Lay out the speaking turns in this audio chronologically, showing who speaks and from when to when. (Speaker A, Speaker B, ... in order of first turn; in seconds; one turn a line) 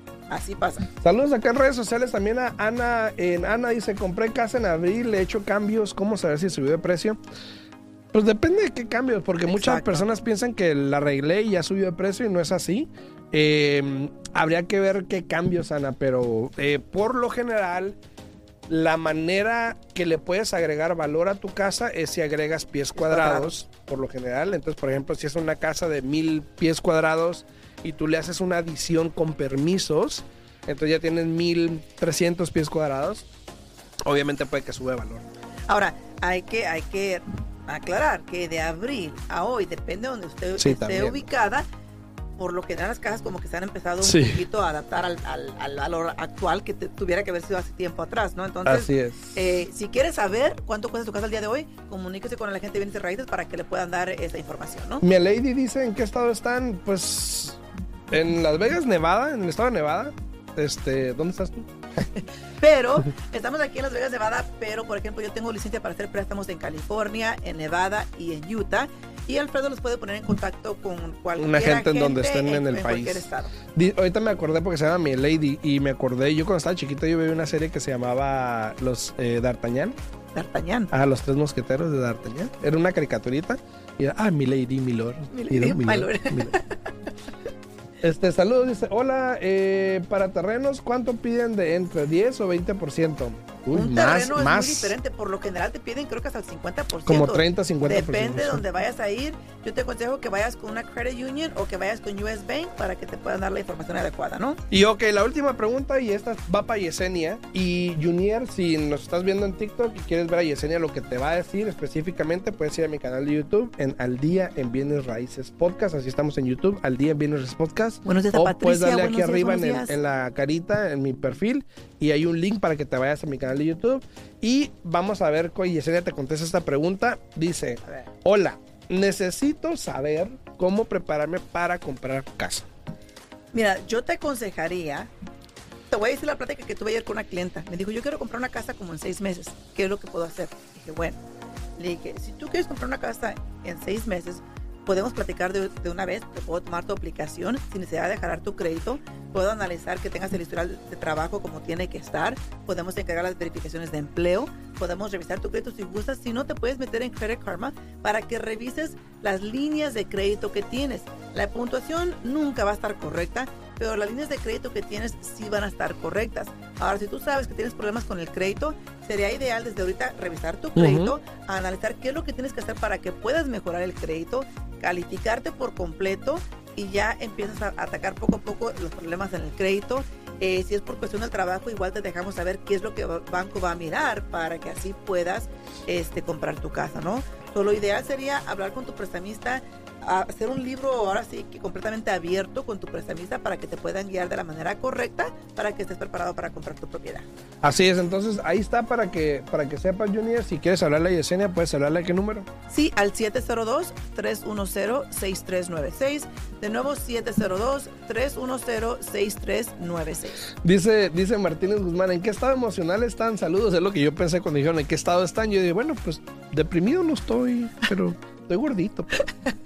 Speaker A: 0.3-0.9
Speaker B: 1.0-7.2
Speaker B: 8.1-18.0
Speaker A: 9.5-10.1
Speaker B: 18.7-33.3
Speaker A: 22.9-23.5
Speaker B: 34.0-35.2
Speaker A: 35.7-41.6
Speaker B: 40.6-41.3
Speaker A: 42.4-55.0
Speaker B: 44.0-44.4
Speaker B: 48.6-49.4
Speaker B: 55.0-57.6
Speaker B: 58.1-61.7
Speaker A: 62.6-73.5
Speaker B: 71.4-80.0
Speaker A: 80.3-80.9
Speaker B: 80.9-86.5
Speaker A: 85.3-86.8
Speaker B: 88.0-94.9
Speaker A: 93.7-104.6
Speaker B: 97.0-98.6
Speaker B: 104.7-132.7
Speaker A: 118.0-120.0
Speaker A: 133.5-135.1
Speaker A: 135.9-141.2
Speaker A: 141.8-197.3
Speaker B: 170.8-171.1
Speaker B: 197.6-202.5
Speaker A: 202.7-210.5
Speaker B: 210.5-219.2